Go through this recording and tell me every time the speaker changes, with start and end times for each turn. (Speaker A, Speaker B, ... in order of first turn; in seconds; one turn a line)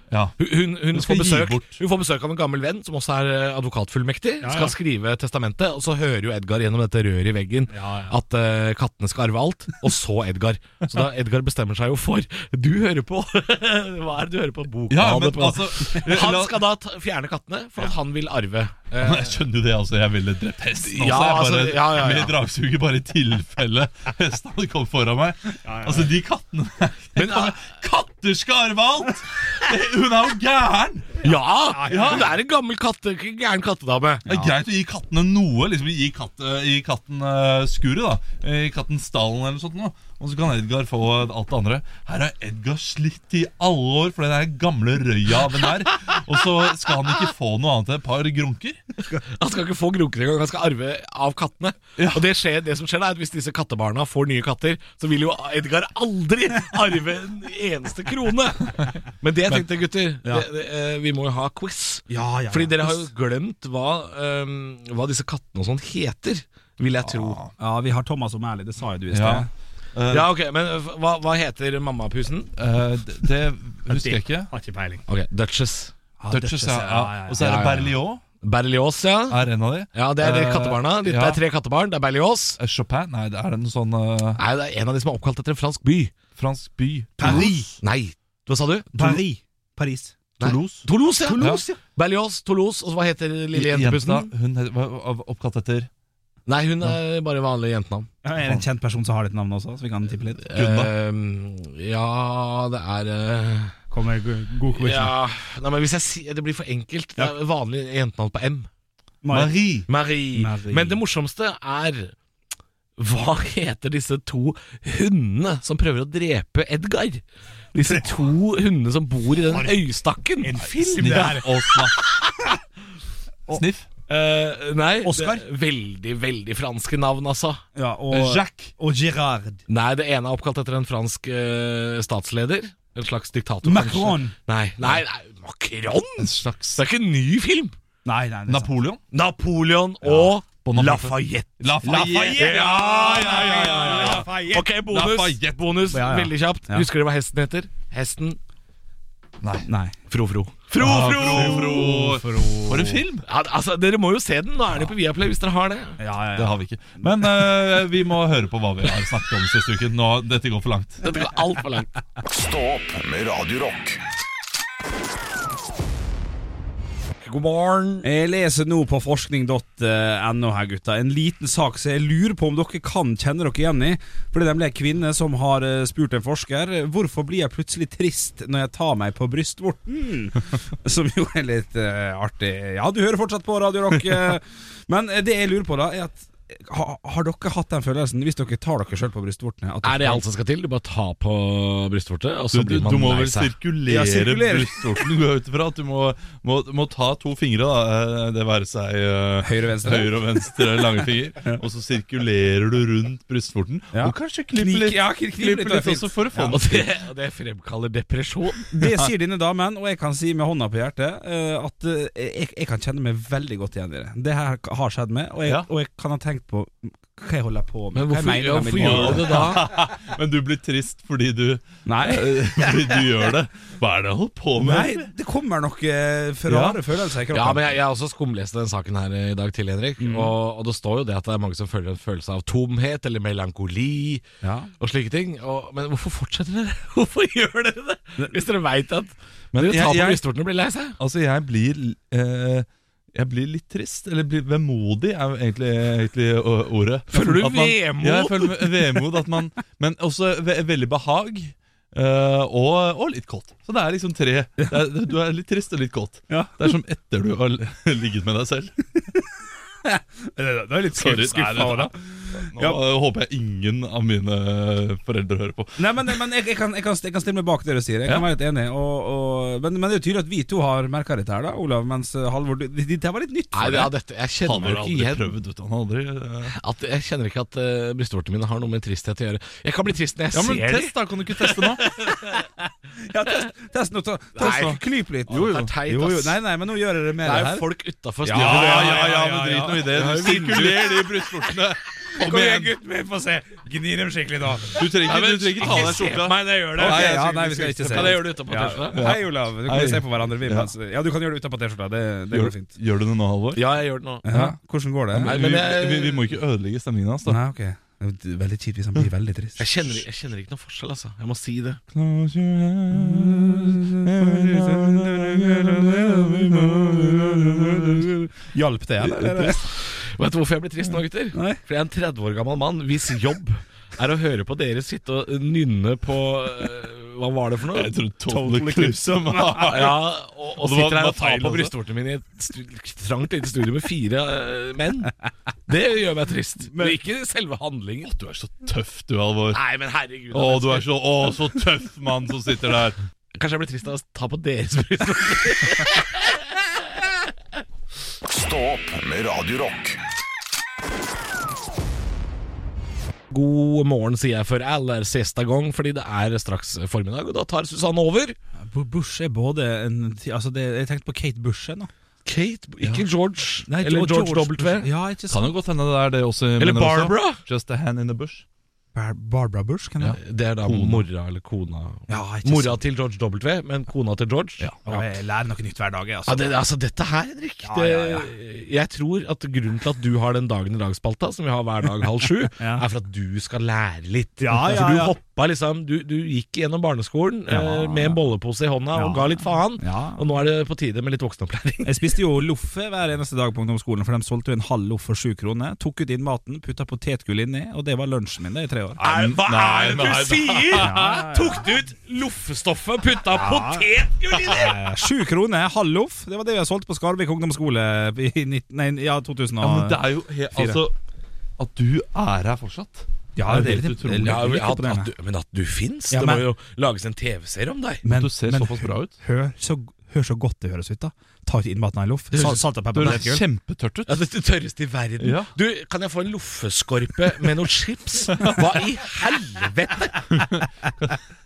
Speaker A: 0.1-0.4
Speaker B: 0.4-19.4
Speaker A: 0.9-1.8
Speaker C: 4.4-4.7
Speaker C: 7.7-8.2
Speaker A: 14.9-16.7
Speaker A: 19.0-31.2
Speaker B: 20.8-22.4
Speaker C: 25.6-26.1
Speaker B: 27.1-27.6
Speaker B: 31.2-34.3
Speaker C: 31.7-32.3
Speaker A: 31.9-32.3
Speaker A: 34.3-48.8
Speaker B: 49.2-67.4
Speaker A: 52.0-52.3
Speaker C: 62.1-63.1
Speaker A: 67.0-67.5
Speaker C: 67.6-69.5
Speaker A: 69.1-70.3
Speaker B: 70.1-72.5
Speaker A: 72.6-74.5
Speaker C: 73.9-75.0
Speaker B: 75.1-75.9
Speaker C: 76.2-77.5
Speaker A: 76.3-78.2
Speaker B: 77.4-79.4
Speaker A: 79.3-81.4
Speaker B: 79.9-82.6
Speaker A: 82.6-84.4
Speaker B: 84.4-86.1
Speaker A: 86.4-87.7
Speaker C: 87.2-87.8
Speaker B: 87.2-88.9
Speaker A: 88.9-89.2
Speaker C: 88.9-90.2
Speaker B: 90.4-94.3
Speaker A: 90.4-90.9
Speaker C: 91.2-91.7
Speaker A: 91.4-91.6
Speaker A: 93.5-95.9
Speaker B: 96.5-98.1
Speaker C: 98.2-100.5
Speaker B: 100.5-103.8
Speaker A: 100.5-100.9
Speaker C: 103.9-105.1
Speaker B: 104.7-108.7
Speaker C: 109.2-109.7
Speaker A: 109.3-109.9
Speaker B: 109.9-112.2
Speaker C: 110.3-111.0
Speaker B: 113.0-117.2
Speaker B: 117.8-121.3
Speaker C: 117.8-118.2
Speaker C: 120.4-121.6
Speaker A: 120.9-122.0
Speaker A: 123.5-123.9
Speaker B: 124.1-127.6
Speaker C: 125.0-125.5
Speaker C: 127.8-129.6
Speaker A: 128.1-128.7
Speaker B: 129.7-137.8
Speaker C: 133.6-134.3
Speaker A: 136.2-136.8
Speaker C: 138.1-138.7
Speaker A: 138.5-139.0
Speaker B: 139.1-141.6
Speaker A: 140.6-144.3
Speaker C: 141.8-144.7
Speaker B: 142.2-148.4
Speaker A: 144.9-145.8
Speaker C: 145.9-146.9
Speaker A: 149.4-149.7
Speaker C: 149.7-150.0
Speaker B: 150.1-152.1
Speaker A: 150.8-153.2
Speaker C: 150.8-153.0
Speaker B: 153.2-156.0
Speaker C: 156.0-157.3
Speaker A: 156.3-161.1
Speaker B: 161.0-161.9
Speaker D: 162.2-164.0
Speaker B: 167.2-168.1
Speaker C: 168.0-190.2
Speaker B: 189.8-193.5
Speaker A: 192.5-206.9
Speaker C: 193.9-195.0
Speaker C: 199.4-200.8
Speaker C: 203.9-206.6
Speaker B: 206.5-208.7
Speaker C: 208.7-219.6
Speaker A: 208.8-209.1
Speaker B: 217.9-219.6
Speaker A: 218.8-225.1
Speaker C: 221.9-223.0
Speaker C: 224.6-227.8
Speaker A: 226.5-226.8
Speaker B: 227.3-234.2
Speaker C: 230.0-230.3
Speaker C: 234.4-234.7
Speaker B: 234.8-241.0
Speaker A: 239.6-240.2
Speaker A: 241.0-258.9
Speaker B: 247.1-248.7
Speaker C: 256.3-256.6
Speaker C: 259.9-262.8
Speaker A: 260.9-266.1
Speaker C: 265.8-273.9
Speaker B: 273.5-275.3
Speaker A: 274.4-276.6
Speaker B: 276.5-282.4
Speaker A: 280.3-281.8
Speaker C: 282.3-287.7
Speaker B: 284.4-286.4
Speaker A: 284.4-285.7
Speaker B: 287.2-289.1
Speaker C: 288.2-289.9
Speaker A: 288.3-292.7
Speaker B: 289.9-291.1
Speaker C: 292.1-294.9
Speaker A: 294.7-298.3
Speaker B: 295.0-299.0
Speaker C: 295.6-296.0
Speaker C: 296.8-302.7
Speaker A: 298.9-300.7
Speaker A: 302.3-303.6
Speaker B: 303.6-304.3
Speaker C: 304.2-305.4
Speaker A: 304.3-304.6
Speaker A: 305.1-307.4
Speaker B: 305.2-306.3
Speaker C: 307.3-309.7
Speaker B: 309.6-311.8
Speaker A: 311.9-318.1
Speaker C: 312.9-319.6
Speaker A: 319.0-319.6
Speaker B: 319.8-327.9
Speaker C: 321.3-321.6
Speaker A: 327.7-331.7
Speaker C: 328.3-329.8
Speaker B: 329.6-335.1
Speaker B: 335.7-338.1
Speaker C: 336.7-337.0
Speaker A: 338.0-339.6
Speaker B: 339.5-341.3
Speaker A: 340.3-343.0
Speaker B: 343.4-347.1
Speaker D: 348.2-350.0
Speaker B: 353.3-358.4
Speaker C: 358.7-361.9
Speaker B: 362.2-364.9
Speaker C: 363.7-365.5
Speaker A: 365.3-368.4
Speaker B: 366.6-367.4
Speaker C: 368.9-370.2
Speaker A: 370.0-371.1
Speaker B: 370.0-375.0
Speaker C: 372.1-372.8
Speaker C: 374.9-376.5
Speaker B: 376.3-391.9
Speaker C: 377.6-378.3
Speaker C: 382.6-382.8
Speaker C: 384.4-385.2
Speaker C: 387.5-388.2
Speaker C: 388.9-390.2
Speaker C: 391.8-399.0
Speaker B: 399.0-404.8
Speaker A: 399.1-401.2
Speaker C: 400.7-401.7
Speaker C: 403.3-403.9
Speaker C: 404.5-410.0
Speaker A: 409.6-410.9
Speaker C: 410.5-410.8
Speaker A: 411.6-414.6
Speaker C: 413.4-415.1
Speaker B: 414.2-418.1
Speaker C: 416.1-416.4
Speaker C: 418.0-423.4
Speaker A: 418.1-419.1
Speaker B: 422.3-423.2
Speaker A: 422.4-424.2
Speaker B: 424.1-430.3
Speaker A: 425.2-425.5
Speaker A: 430.3-431.2